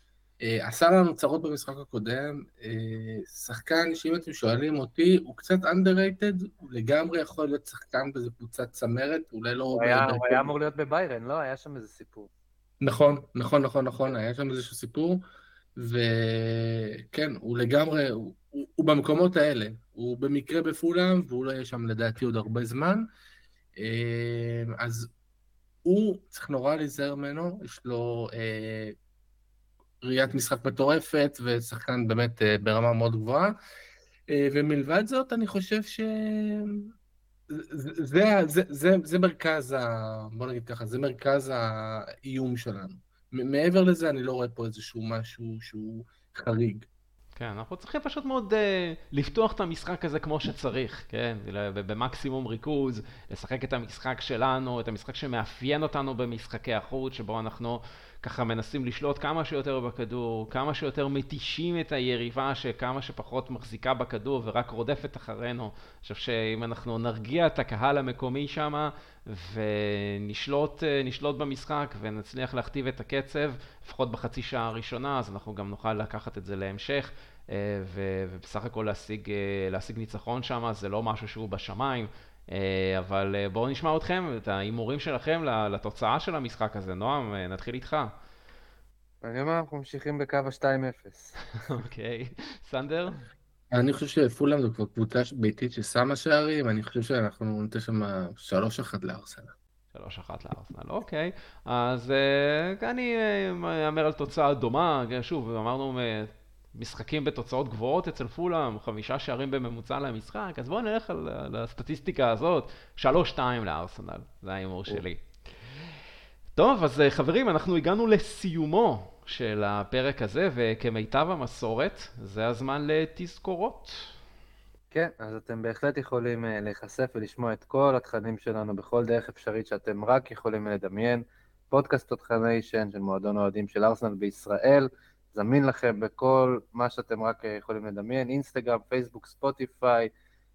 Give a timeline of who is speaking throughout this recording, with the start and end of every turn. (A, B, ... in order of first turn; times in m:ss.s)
0:00.4-0:10.5 A
0:09.7-0:12.3 B
0:12.8-0:15.2 A
0:15.8-0:23.1 A
0:23.8-0:25.1 A
0:25.8-0:29.0 A
0:30.0-0:33.5 A
0:34.3-0:36.9 A
0:37.5-0:46.9 A
0:47.4-1:28.1 C
1:29.2-1:31.6 B
1:31.6-1:33.3 C
1:33.7-1:39.6 A
1:39.9-1:55.2 C
1:56.6-2:04.2 C
2:04.9-2:20.1 B